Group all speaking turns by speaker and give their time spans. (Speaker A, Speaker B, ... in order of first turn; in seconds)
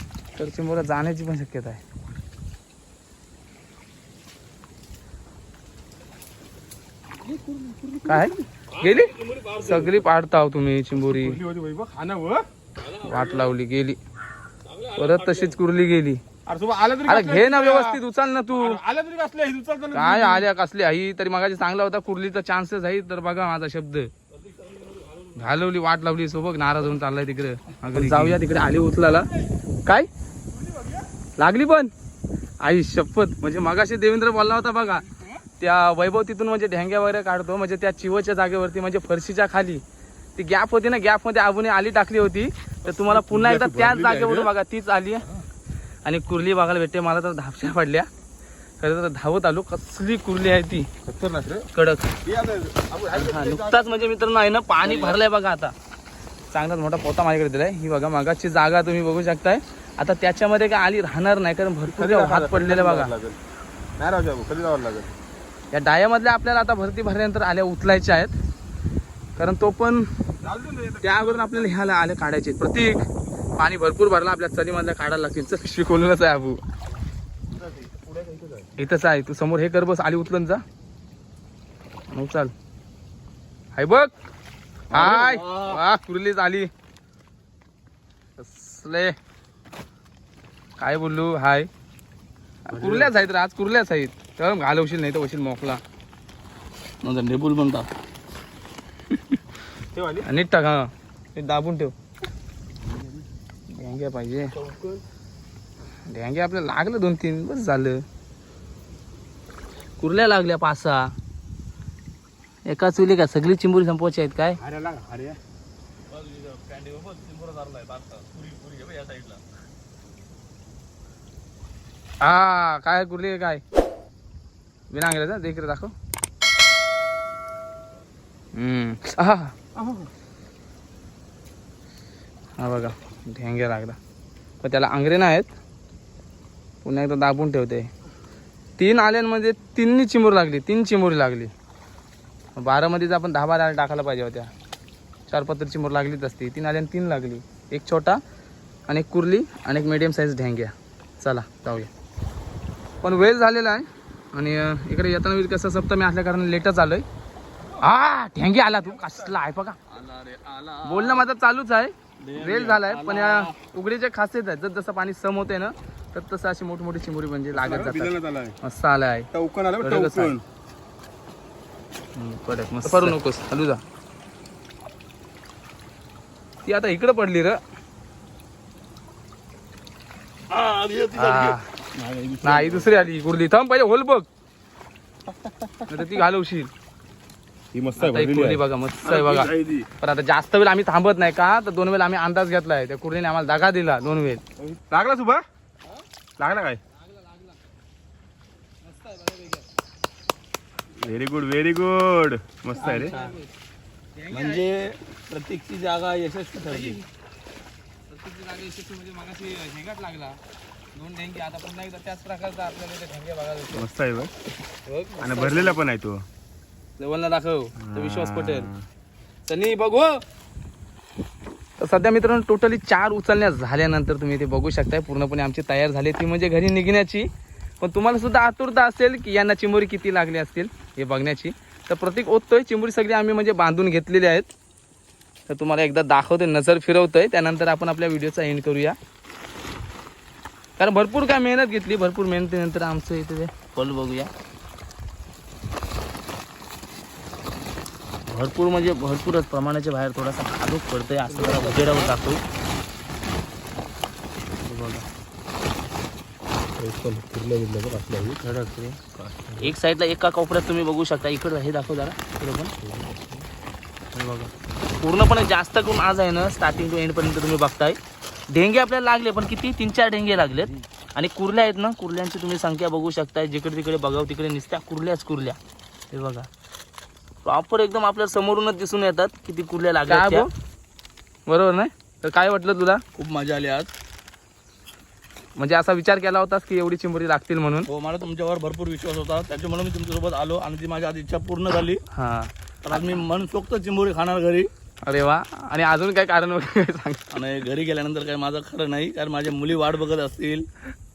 Speaker A: 0.3-1.8, 8.1-11.4, 13.0-14.0, 14.9-16.2, 17.1-18.8, 19.9-24.1, 25.3-29.3, 31.4-31.9, 32.6-39.8, 40.4-45.3, 46.0-48.1, 48.8-50.9, 51.7-52.1, 53.1-55.7, 56.5-63.1, 65.7-68.3, 69.4-70.1, 71.0-76.6, 78.8-80.6, 82.1-82.5, 83.8-84.1, 84.9-86.7, 88.4-89.2, 90.8-91.7, 92.7-95.8, 99.1-99.4, 100.2-101.9, 103.7-104.6, 106.1-108.0, 110.0-111.1, 112.7-114.6, 122.2-123.6, 124.9-125.9, 128.5-129.6, 132.6-134.0, 134.6-135.6, 136.8-137.9, 138.8-141.5, 142.6-144.5, 145.3-148.2, 148.9-151.9, 153.0-157.1, 157.8-159.8, 160.8-169.3, 169.8-170.3, 172.2-173.8, 176.6-177.6, 181.1-181.7, 182.4-184.3, 185.9-186.7, 188.0-194.4, 197.0-197.6, 198.8-199.7, 202.7-203.5, 204.2-204.6, 206.6-207.0, 208.1-210.4, 210.9-213.9, 214.9-215.8, 217.0-218.7, 219.4-220.2, 221.8-227.3, 227.8-234.5, 235.5-239.0, 240.8-244.3, 248.3-252.4, 254.6-255.1, 258.4-259.0, 259.6-262.7, 264.1-268.0, 268.5-275.6, 276.1-276.5, 280.1-280.5, 281.5-283.0, 285.6-287.9, 292.1-293.2, 295.0-297.2
Speaker B: 7.2-8.4, 9.5-10.0, 11.1-12.4, 16.4-18.0, 18.5-20.5, 28.0-28.3, 30.6-31.0, 42.8-44.5, 51.0-51.7, 52.2-54.1, 61.9-63.4, 64.0-65.1, 70.4-72.0, 77.5-78.7, 92.7-93.1, 99.9-100.2, 104.6-105.0, 114.6-115.4, 129.8-130.1, 167.5-168.6, 169.3-170.4, 182.0-182.6, 185.4-186.1, 187.7-188.6, 194.6-195.4, 196.4-196.8, 201.0-203.1, 213.7-214.3, 215.2-216.2, 217.8-218.8, 256.8-258.4, 259.2-259.7, 262.8-263.4
Speaker C: 8.8-9.7, 12.8-13.5, 14.7-15.6, 24.4-25.3, 28.0-28.2, 84.9-85.8, 97.0-97.9, 116.1-119.4, 159.9-161.2, 162.2-163.5, 180.5-182.8, 189.0-189.9, 202.8-203.4, 204.3-207.0, 251.3-252.2, 277.5-280.5, 283.1-283.9, 287.9-292.0, 292.8-294.7, 297.3-300.7